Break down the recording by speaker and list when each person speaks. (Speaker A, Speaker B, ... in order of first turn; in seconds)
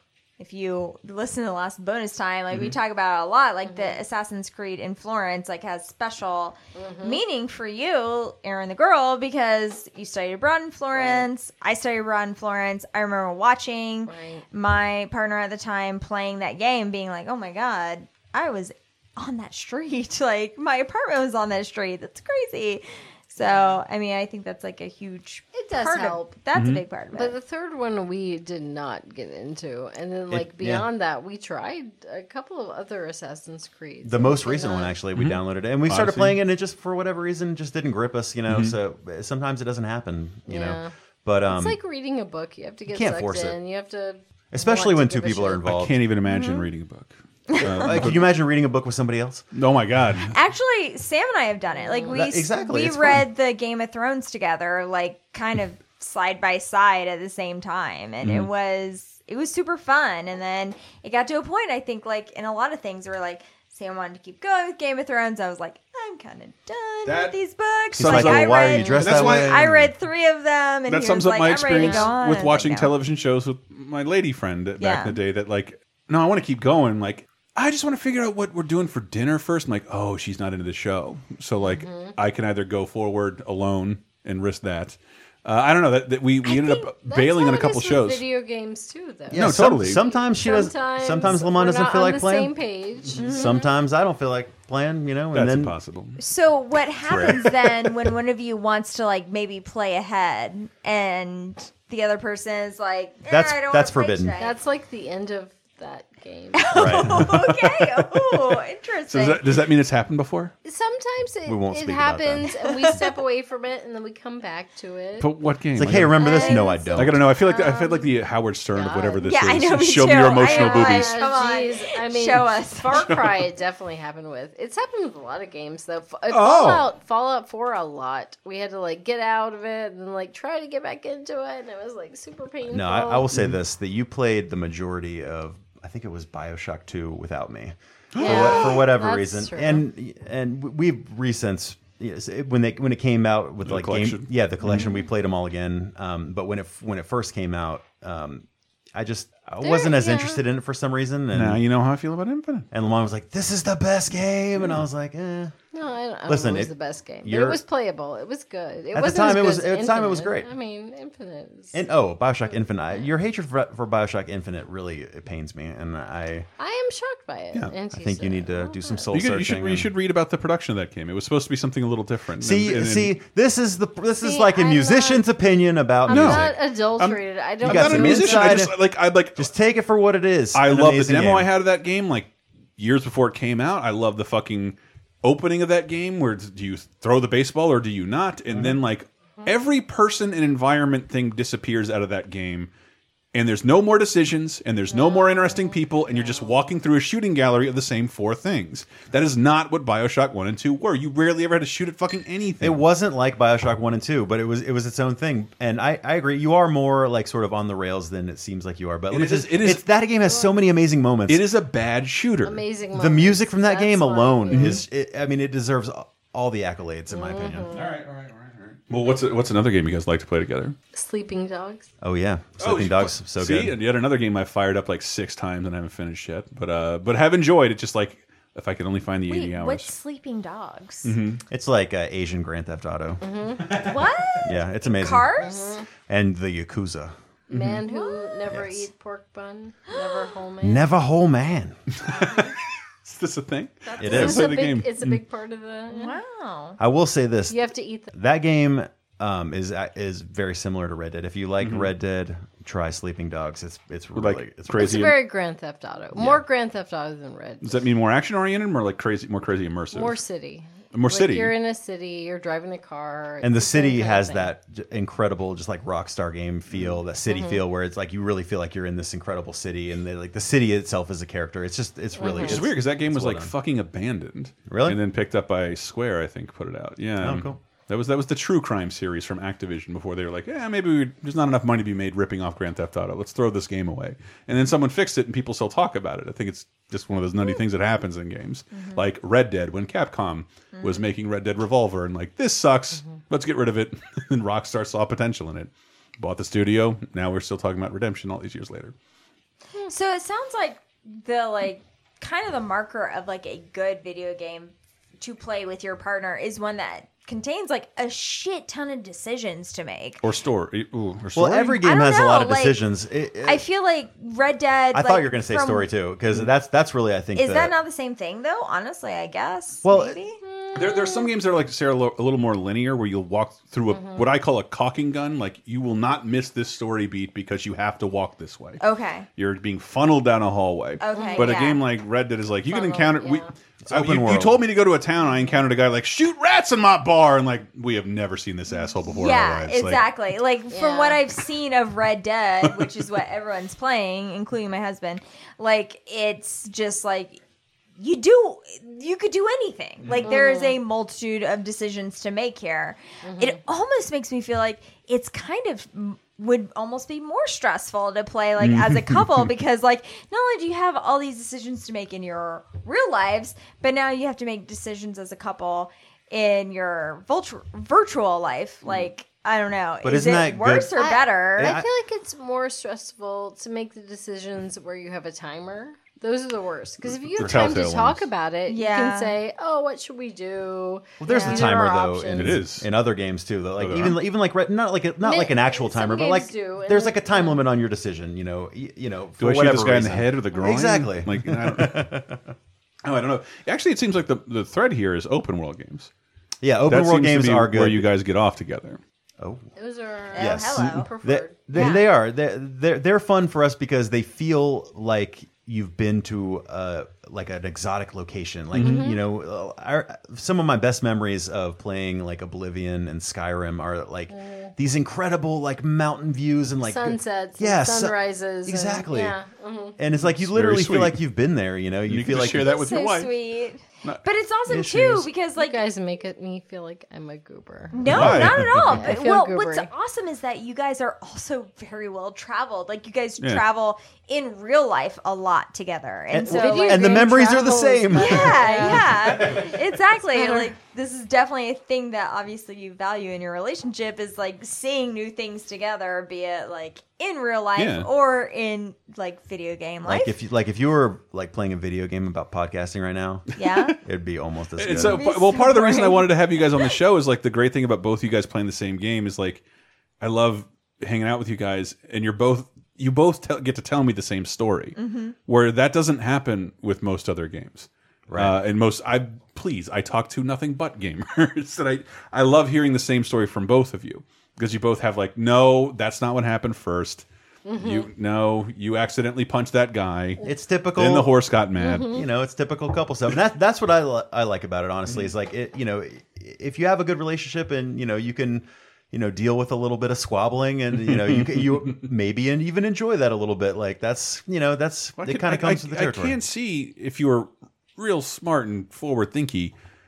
Speaker A: 0.4-27.4, 46.2-46.7, 47.5-47.9, 50.3-72.9, 74.8-75.2, 86.4-86.9, 93.2-93.7, 96.2-104.5, 106.5-109.7, 112.6-113.2, 116.2-118.0, 118.8-123.0, 229.3-231.1, 233.7-235.8, 237.9-238.4, 239.9-240.3, 242.1-242.5, 243.8-244.3, 245.9-246.8, 288.7-289.0, 290.7-291.0, 299.8-310.2, 311.7-312.8, 313.4-315.8, 317.3-320.4, 328.8-329.3, 331.0-331.8, 339.0-347.4, 348.0-371.8, 378.6-379.4, 381.3-381.7, 400.3-401.1, 401.7-402.0, 422.5-425.8, 427.9-437.4, 438.1-450.3, 453.6-454.0, 455.0-456.9, 464.9-465.4
Speaker B: 3.6-4.0, 6.7-7.2, 10.9-11.2, 14.1-14.4, 23.4-23.8, 25.5-26.3, 27.1-34.9, 40.5-40.9, 41.5-45.6, 51.7-52.2, 68.7-69.0, 71.8-72.1, 81.7-82.2, 87.0-93.5, 104.4-106.8, 110.6-115.3, 116.2-116.9, 117.6-117.9, 120.5-133.3, 138.2-139.8, 149.6-150.4, 155.7-161.8, 166.6-169.1, 174.2-175.2, 176.1-178.7, 212.4-214.8, 217.1-217.9, 220.9-221.8, 233.2-233.8, 235.4-235.9, 237.5-240.8, 243.9-246.2, 247.5-248.1, 254.8-257.8, 259.9-264.5, 267.3-267.6, 272.2-272.6, 320.4-321.3, 323.9-324.3, 331.1-331.6, 332.7-333.5, 340.7-341.2, 350.2-350.8, 353.2-353.6, 370.9-382.6, 385.2-387.6, 399.8-402.0, 408.8-409.2, 414.3-414.7, 416.8-420.0, 425.6-429.9, 436.4-439.6, 440.3-440.7, 477.6-478.1, 481.8-482.3
Speaker C: 26.5-26.8, 35.1-36.4, 38.5-38.8, 45.6-48.3, 49.5-50.4, 58.2-58.5, 67.0-67.3, 67.9-69.6, 70.9-88.2, 89.3-90.0, 95.3-96.2, 97.0-97.9, 106.8-110.5, 115.2-116.2, 116.9-121.2, 122.9-123.5, 126.3-126.9, 138.1-138.8, 143.6-144.8, 151.3-152.7, 169.1-173.1, 176.1-179.5, 180.5-192.7, 193.3-202.8, 209.1-209.8, 211.3-212.6, 214.5-214.8, 217.7-220.8, 222.6-229.9, 231.0-231.4, 233.7-234.3, 237.5-237.8, 242.0-245.2, 251.6-251.9, 254.1-255.2, 257.6-260.2, 260.9-261.6, 272.4-298.9, 310.2-311.8, 320.7-328.8, 329.4-340.0, 350.0-350.3, 358.6-359.5, 377.0-378.3, 382.3-382.9, 383.8-384.2, 389.4-392.1, 393.0-396.1, 396.9-399.0, 408.7-409.1, 420.1-421.2, 422.1-423.3, 428.0-429.1, 439.3-439.7, 447.8-448.1, 453.6-453.9, 454.8-459.6, 460.2-480.4, 480.9-482.2, 491.0-492.0, 495.2-499.7
Speaker D: 30.3-30.9, 34.0-41.8, 42.9-43.6, 44.5-45.9, 47.6-49.4, 52.1-53.2, 67.9-69.9, 89.3-92.5, 93.1-95.7, 103.3-104.3, 106.7-107.2, 111.5-112.5, 115.8-117.2, 132.7-151.6, 152.7-155.5, 156.3-156.7, 157.2-157.6, 158.9-160.5, 161.7-166.5, 167.9-169.9, 172.4-176.6, 177.6-178.8, 179.3-181.5, 202.6-211.5, 212.9-217.7, 222.0-223.7, 231.5-233.2, 234.4-235.5, 236.1-237.1, 238.5-238.9, 240.6-241.8, 244.0-244.5, 246.8-247.6, 248.1-255.1, 263.4-273.5, 274.7-275.0, 277.2-277.6, 311.3-313.6, 314.9-317.7, 319.8-320.2, 333.8-334.6, 370.0-370.9, 371.6-371.9, 377.4-377.7, 381.2-392.4, 396.6-398.1, 399.4-399.7, 400.4-419.4, 420.0-422.7, 424.7-425.3, 436.3-438.9, 450.0-453.4, 454.0-455.2, 468.3-468.6, 480.4-481.4, 482.0-496.4